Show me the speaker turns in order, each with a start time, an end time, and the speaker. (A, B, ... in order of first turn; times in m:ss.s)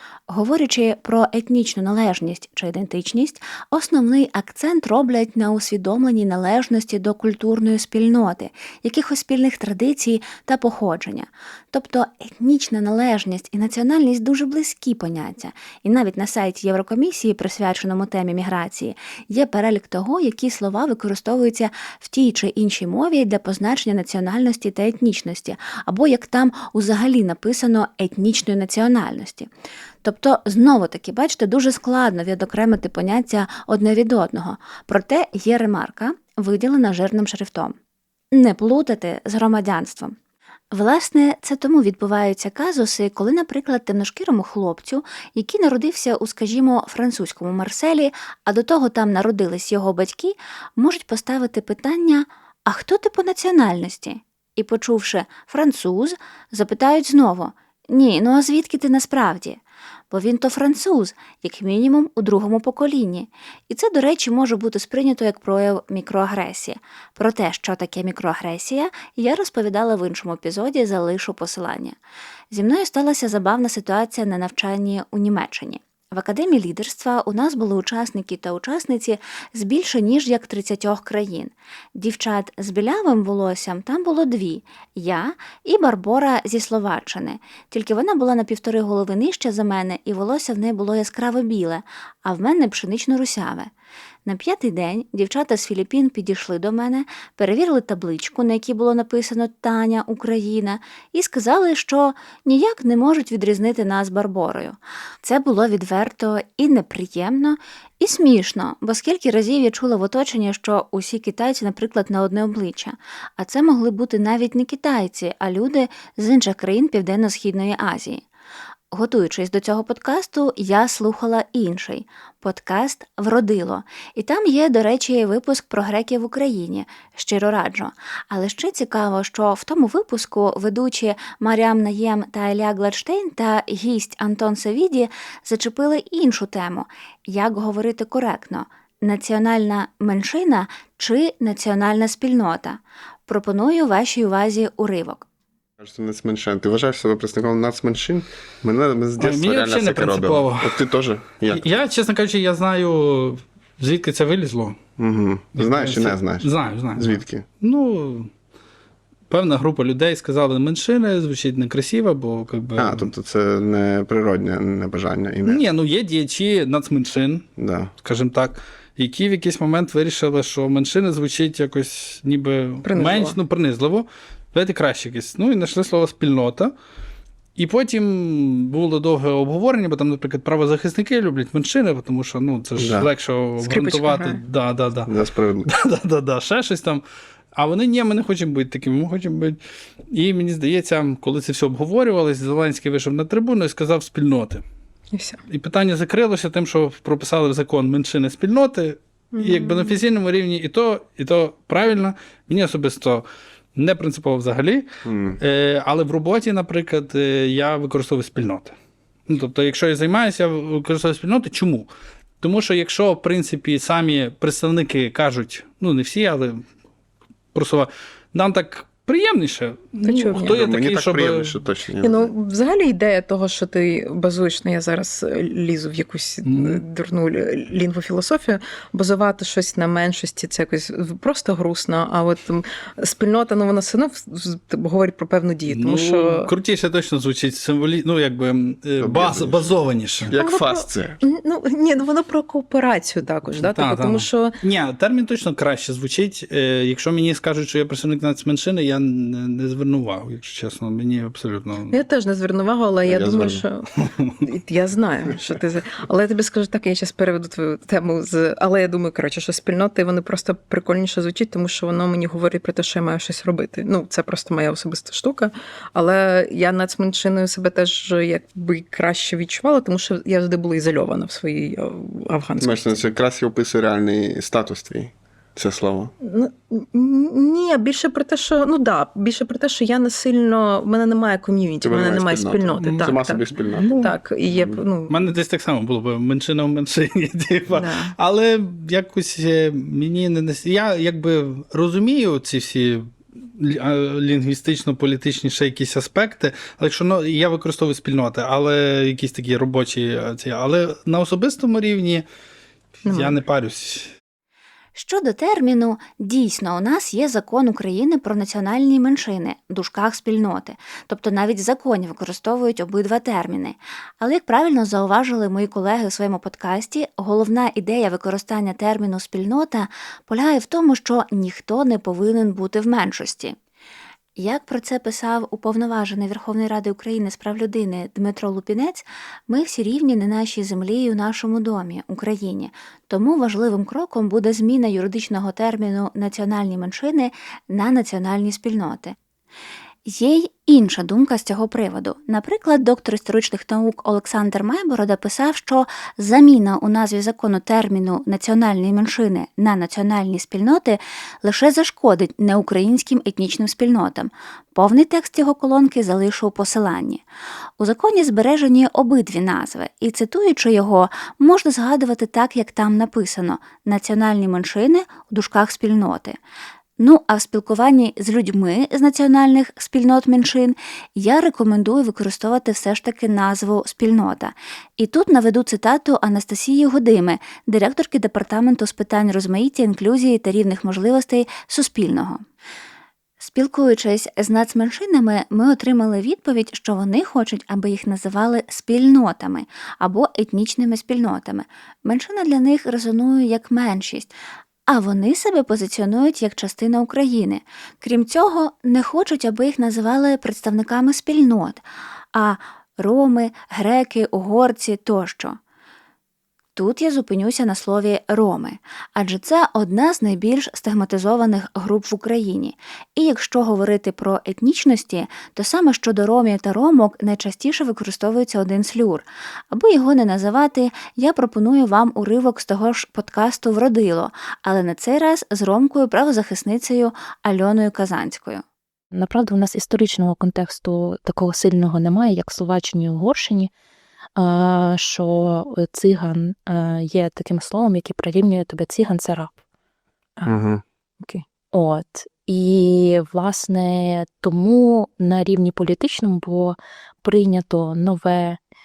0:00.3-0:29.5 A
0:30.0-0:37.7 A
0:38.3-0:40.1 A
0:40.7-0:59.6 A
1:00.1-1:12.0 A
1:12.5-1:33.7 A
1:34.2-1:58.2 A
1:58.9-2:25.2 A
2:25.8-2:31.7 B
2:29.2-2:30.8 C
2:31.5-2:34.8 C
2:35.0-2:37.4 B
2:35.5-2:38.3 C
2:39.3-2:43.1 C
2:42.8-2:45.6 B
2:45.4-2:47.4 C
2:47.6-2:47.9 B
2:48.0-2:56.7 C
2:52.8-2:53.4 D
2:57.6-3:05.1 C
3:02.8-3:03.1 B
3:03.6-3:04.4 D
3:05.1-3:05.7 B
3:05.6-3:07.0 C
3:07.5-3:09.6 C
3:10.1-3:14.6 C
3:15.1-3:15.4 D
3:15.5-3:23.2 C
3:19.4-3:20.0 D
3:23.8-3:24.8 C
3:25.0-3:25.4 B
3:25.4-3:28.7 C
3:29.3-3:31.9 C
3:32.4-3:36.6 C
3:37.5-3:41.6 C
3:40.0-3:40.5 D
3:40.4-3:42.3 B
3:42.0-3:56.5 D
3:46.4-3:46.8 C
3:55.6-4:00.3 C
3:59.0-4:01.2 B
4:00.4-4:04.5 D
4:03.6-4:12.0 C
4:11.9-4:13.8 D
4:13.1-4:13.6 B
4:14.0-4:14.3 C
4:14.4-4:33.0 D
4:32.6-4:36.1 B
4:36.2-4:43.4 D
4:41.8-4:43.9 B
4:42.8-4:43.2 C
4:43.7-4:44.2 C
4:44.0-4:45.1 D
4:44.5-4:44.8 B
4:45.1-5:02.2 C
4:47.8-4:48.1 D
5:03.0-5:04.1 C
5:03.0-5:03.4 D
5:04.9-5:23.6 A
5:24.4-5:39.2 A
5:40.0-5:57.2 A
5:57.8-6:06.4 A
6:07.0-6:22.4 A
6:23.4-6:34.3 A
6:34.9-6:45.6 A
6:46.8-7:08.6 A
7:09.1-7:13.7 E
7:14.3-7:19.5 E
7:20.5-7:20.8 B
7:21.7-7:28.6 E